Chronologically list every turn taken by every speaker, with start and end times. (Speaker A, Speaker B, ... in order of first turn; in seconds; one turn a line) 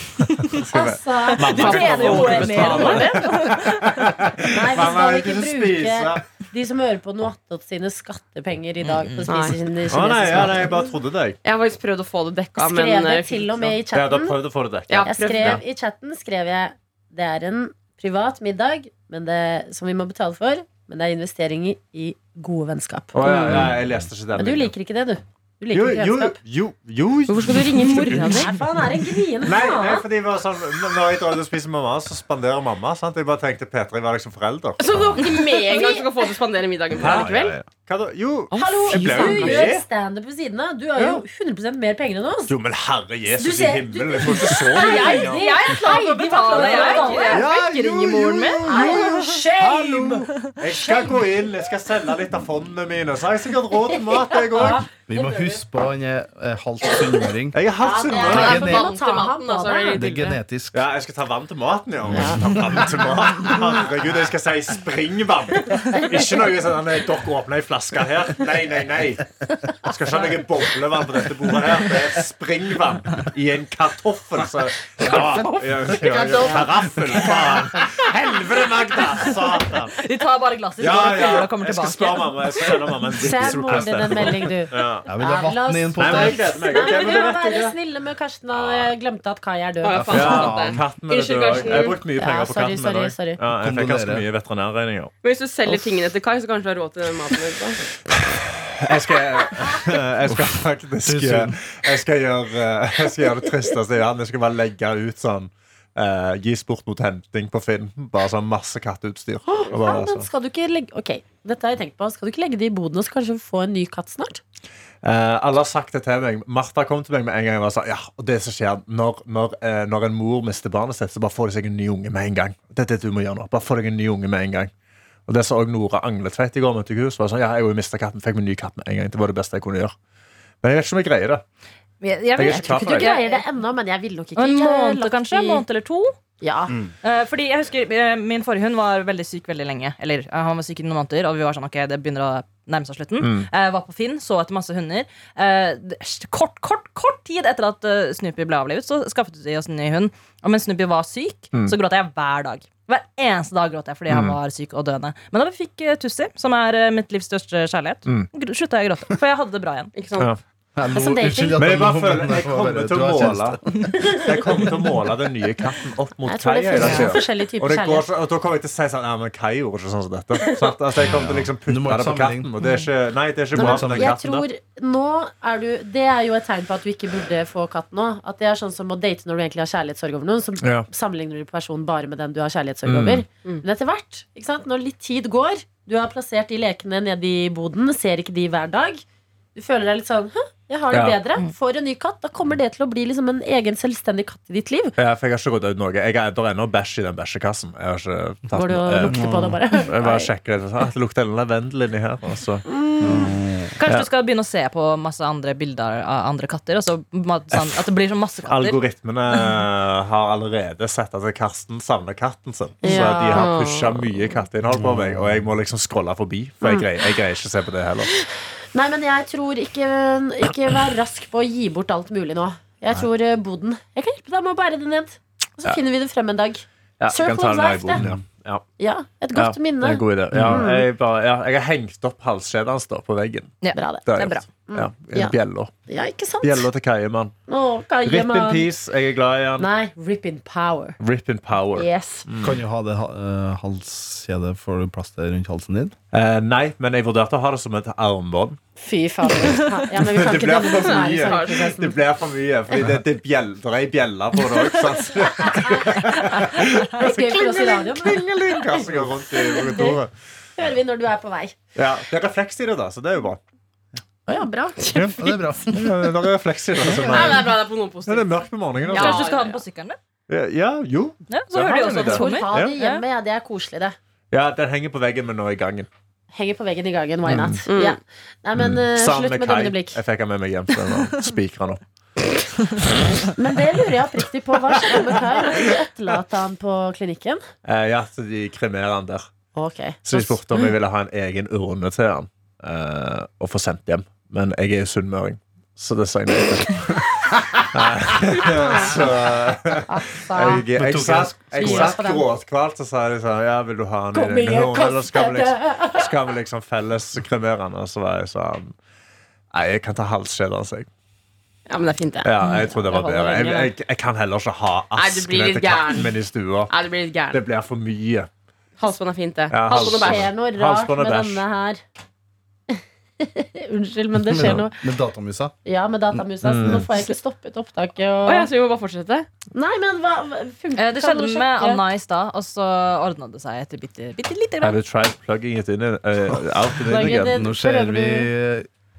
Speaker A: 0.4-6.2
Speaker B: 0.7-3.1
Speaker C: 1.3-4.2
Speaker D: 1.7-2.8
Speaker B: 4.5-10.9
Speaker C: 8.9-9.3
Speaker D: 9.3-9.6
Speaker A: 9.9-11.4
Speaker D: 11.4-13.8
Speaker B: 12.6-14.4
Speaker A: 13.9-15.6
Speaker D: 14.9-15.6
Speaker B: 15.1-23.7
Speaker A: 23.1-24.7
Speaker D: 23.2-23.8
Speaker B: 24.4-26.4
Speaker A: 25.7-28.4
Speaker D: 27.3-28.5
Speaker B: 28.2-30.1
Speaker A: 29.4-35.2
Speaker D: 34.8-37.5
Speaker C: 35.2-36.0
Speaker A: 37.0-39.8
Speaker E: 37.0-37.6
Speaker D: 38.5-39.8
Speaker B: 38.5-42.5
Speaker D: 41.0-41.2
Speaker A: 42.5-45.5
Speaker B: 43.3-47.5
Speaker C: 44.7-49.0
Speaker A: 46.5-54.9
Speaker B: 48.7-50.3
Speaker B: 50.8-51.2
Speaker B: 54.5-55.6
Speaker E: 54.9-57.6
Speaker A: 57.5-58.7
Speaker B: 57.8-60.0
Speaker E: 58.2-58.9
Speaker D: 58.3-60.4
Speaker E: 60.0-60.8
Speaker A: 60.7-80.0
Speaker B: 62.1-62.6
Speaker E: 62.4-62.6
Speaker E: 76.0-76.8
Speaker B: 77.1-77.8
Speaker C: 80.0-82.8
Speaker A: 80.8-85.1
Speaker B: 83.2-90.4
Speaker E: 85.1-86.4
Speaker A: 86.0-87.8
Speaker D: 86.7-87.0
Speaker A: 88.5-88.9
Speaker D: 89.8-92.1
Speaker E: 89.9-90.8
Speaker A: 90.1-95.1
Speaker B: 91.6-93.4
Speaker E: 93.5-94.2
Speaker D: 95.2-97.8
Speaker A: 98.7-110.3
Speaker E: 100.3-101.8
Speaker B: 109.5-114.4
Speaker A: 115.0-124.7
Speaker A: 125.3-129.9
Speaker A: 130.6-131.4
Speaker C: 132.0-133.4
Speaker A: 132.3-133.2
Speaker B: 132.4-135.7
Speaker C: 134.4-136.2
Speaker B: 136.4-136.7
Speaker C: 137.0-159.9
Speaker A: 143.2-143.5
Speaker A: 154.1-154.4
Speaker D: 159.9-160.3
Speaker E: 160.8-164.2
Speaker B: 160.9-161.7
Speaker A: 161.6-174.5
Speaker B: 166.3-168.1
Speaker B: 170.4-171.1
Speaker E: 171.1-172.5
Speaker B: 173.5-189.0
Speaker E: 173.6-174.1
Speaker A: 180.6-180.9
Speaker A: 182.8-183.2
Speaker B: 189.6-194.9
Speaker A: 190.9-191.2
Speaker A: 195.0-202.7
Speaker B: 198.5-200.3
Speaker E: 199.0-199.6
Speaker B: 202.7-203.3
Speaker E: 203.0-203.8
Speaker C: 203.8-208.8
Speaker A: 208.4-218.1
Speaker B: 212.8-213.5
Speaker D: 212.9-214.3
Speaker E: 214.7-215.2
Speaker B: 216.6-216.9
Speaker B: 218.7-228.0
Speaker A: 227.0-228.6
Speaker E: 228.0-228.2
Speaker B: 228.8-230.9
Speaker A: 229.3-235.7
Speaker E: 230.3-230.7
Speaker C: 233.6-234.4
Speaker B: 233.7-235.4
Speaker B: 235.9-236.7
Speaker A: 236.4-237.3
Speaker B: 237.5-238.7
Speaker A: 238.1-239.7
Speaker B: 239.6-241.0
Speaker A: 241.0-242.5
Speaker B: 241.8-242.3
Speaker E: 242.4-245.9
Speaker A: 246.1-248.6
Speaker B: 248.8-252.0
Speaker A: 249.9-260.1
Speaker D: 250.7-251.7
Speaker B: 255.3-260.0
Speaker B: 260.6-261.6
Speaker A: 261.8-263.4
Speaker B: 264.3-265.1
Speaker A: 264.9-269.3
Speaker E: 265.0-266.0
Speaker D: 266.9-269.6
Speaker C: 268.9-270.0
Speaker A: 270.3-272.8
Speaker C: 271.3-273.0
Speaker B: 272.1-274.0
Speaker A: 274.3-275.9
Speaker B: 276.3-280.0
Speaker A: 277.3-277.6
Speaker D: 277.7-278.0
Speaker A: 278.6-281.8
Speaker B: 283.2-287.4
Speaker A: 287.6-289.3
Speaker B: 289.6-290.4
Speaker A: 290.0-308.8
Speaker B: 298.3-299.1
Speaker B: 299.9-300.7
Speaker E: 300.7-302.0
Speaker B: 301.5-302.3
Speaker B: 304.1-306.3
Speaker A: 309.5-310.9
Speaker D: 311.7-312.3
Speaker A: 312.2-316.7
Speaker C: 312.4-312.8
Speaker D: 312.9-313.7
Speaker D: 314.9-316.2
Speaker D: 316.7-317.4
Speaker A: 317.3-318.3
Speaker D: 318.8-320.3
Speaker A: 319.5-321.4
Speaker B: 319.7-321.8
Speaker B: 322.7-324.8
Speaker E: 324.3-325.5
Speaker A: 324.4-324.6
Speaker B: 325.6-328.5
Speaker A: 326.4-326.9
Speaker D: 328.2-329.3
Speaker B: 329.6-331.8
Speaker C: 330.8-334.8
Speaker A: 334.6-337.4
Speaker B: 336.9-338.3
Speaker E: 337.1-338.7